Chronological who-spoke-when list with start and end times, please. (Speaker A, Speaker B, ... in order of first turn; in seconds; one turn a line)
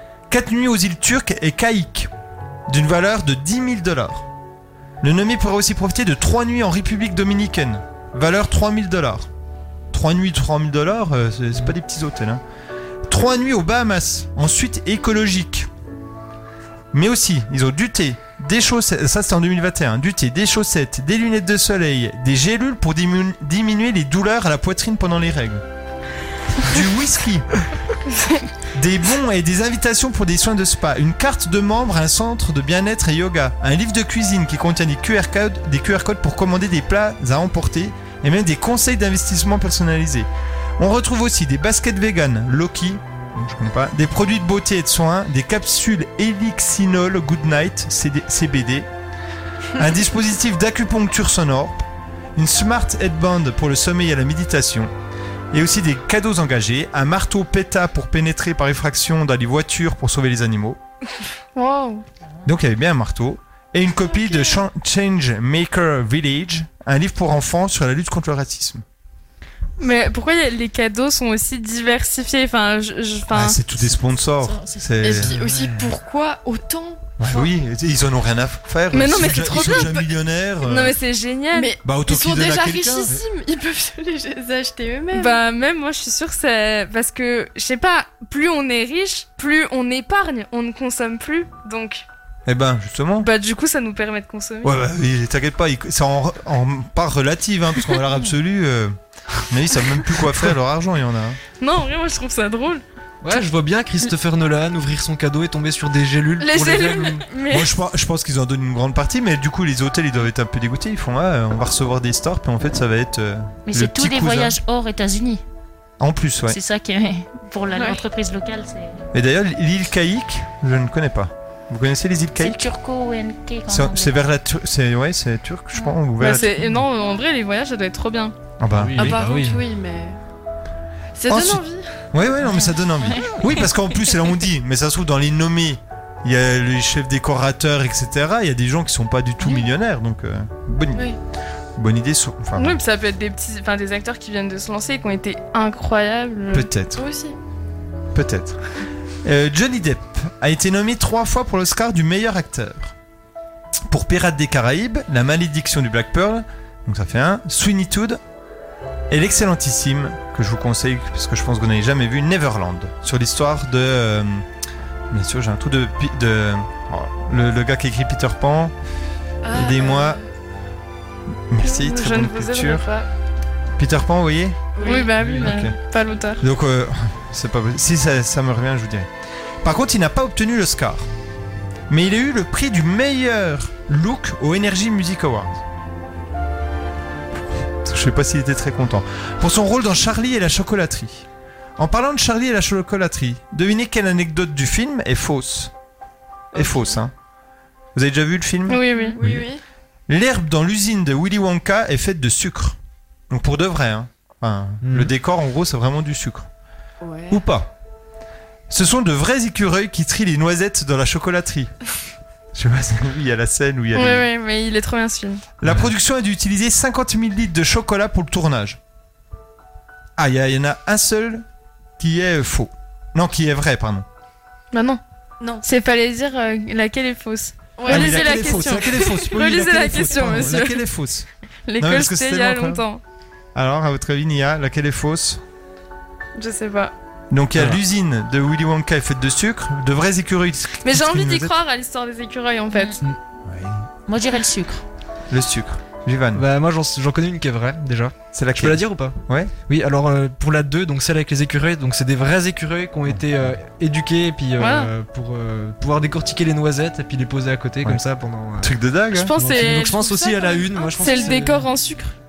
Speaker A: 0.3-2.1
Speaker A: 2.7-4.2
Speaker A: 5.0-9.3
Speaker A: 9.9-12.4
Speaker A: 13.1-15.7
Speaker A: 16.9-25.6
Speaker A: 26.6-27.5
Speaker B: 28.1-28.4
Speaker A: 28.7-48.9
Speaker A: 49.8-54.9
Speaker A: 55.5-60.8
Speaker B: 61.5-62.0
Speaker A: 62.4-68.8
Speaker B: 69.8-73.6
Speaker A: 73.3-75.3
Speaker C: 74.4-75.0
Speaker D: 75.0-77.5
Speaker E: 75.2-75.9
Speaker A: 77.2-81.0
Speaker B: 78.9-79.9
Speaker D: 79.5-80.0
Speaker B: 80.6-81.7
Speaker D: 81.5-85.4
Speaker A: 81.8-83.1
Speaker B: 85.1-92.0
Speaker A: 92.5-93.3
Speaker B: 93.2-94.7
Speaker A: 94.6-101.4
Speaker B: 101.6-102.8
Speaker E: 103.2-107.3
Speaker B: 106.4-107.7
Speaker A: 107.5-114.5
Speaker C: 113.7-115.4
Speaker A: 116.0-116.6
Speaker C: 116.5-119.0
Speaker D: 117.7-118.0
Speaker A: 119.1-122.7
Speaker C: 122.3-124.2
Speaker A: 123.7-126.6
Speaker B: 126.2-128.3
Speaker A: 128.6-129.2
Speaker E: 128.8-129.6
Speaker D: 128.9-130.2
Speaker D: 131.1-131.9
Speaker A: 131.3-141.1
Speaker C: 132.4-134.1
Speaker A: 141.8-142.8
Speaker B: 142.6-146.7
Speaker A: 146.5-147.0
Speaker D: 146.9-147.4
Speaker A: 148.1-148.6
Speaker A: 149.2-152.9
Speaker A: 153.9-158.2
Speaker A: 159.1-164.4
Speaker A: 165.1-168.7
Speaker D: 169.4-170.2
Speaker A: 169.5-170.2
Speaker A: 171.5-172.8
Speaker B: 171.6-173.1
Speaker A: 173.8-175.7
Speaker D: 174.7-175.1
Speaker B: 174.8-176.4
Speaker E: 175.1-175.6
Speaker A: 176.4-179.1
Speaker A: 179.6-181.1
Speaker A: 181.9-185.6
Speaker A: 187.8-191.2
Speaker A: 191.8-195.7
Speaker D: 196.5-197.0
Speaker A: 196.5-197.1
Speaker A: 197.9-198.8
Speaker B: 198.7-199.2
Speaker D: 198.9-199.6
Speaker A: 200.1-202.8
Speaker A: 203.3-206.5
Speaker E: 204.8-205.1
Speaker D: 207.0-207.4
Speaker A: 207.3-207.7
Speaker A: 208.7-211.7
Speaker A: 212.5-214.2
Speaker B: 213.9-215.4
Speaker A: 215.6-218.8
Speaker E: 215.6-215.9
Speaker A: 220.2-221.4
Speaker A: 222.0-224.1
Speaker B: 224.7-225.0
Speaker B: 225.6-230.8
Speaker D: 227.8-228.6
Speaker A: 227.9-231.3
Speaker B: 231.7-233.0
Speaker A: 231.8-232.8
Speaker A: 233.5-235.4
Speaker B: 236.4-236.9
Speaker A: 237.3-241.5
Speaker B: 240.8-242.9
Speaker C: 242.7-243.0
Speaker A: 243.4-243.8
Speaker C: 244.1-244.8
Speaker A: 245.3-246.4
Speaker E: 246.3-258.7
Speaker A: 248.3-249.5
Speaker A: 253.1-253.5
Speaker B: 254.6-254.9
Speaker A: 258.6-259.3
Speaker B: 259.1-262.1
Speaker E: 259.3-261.7
Speaker D: 260.7-261.4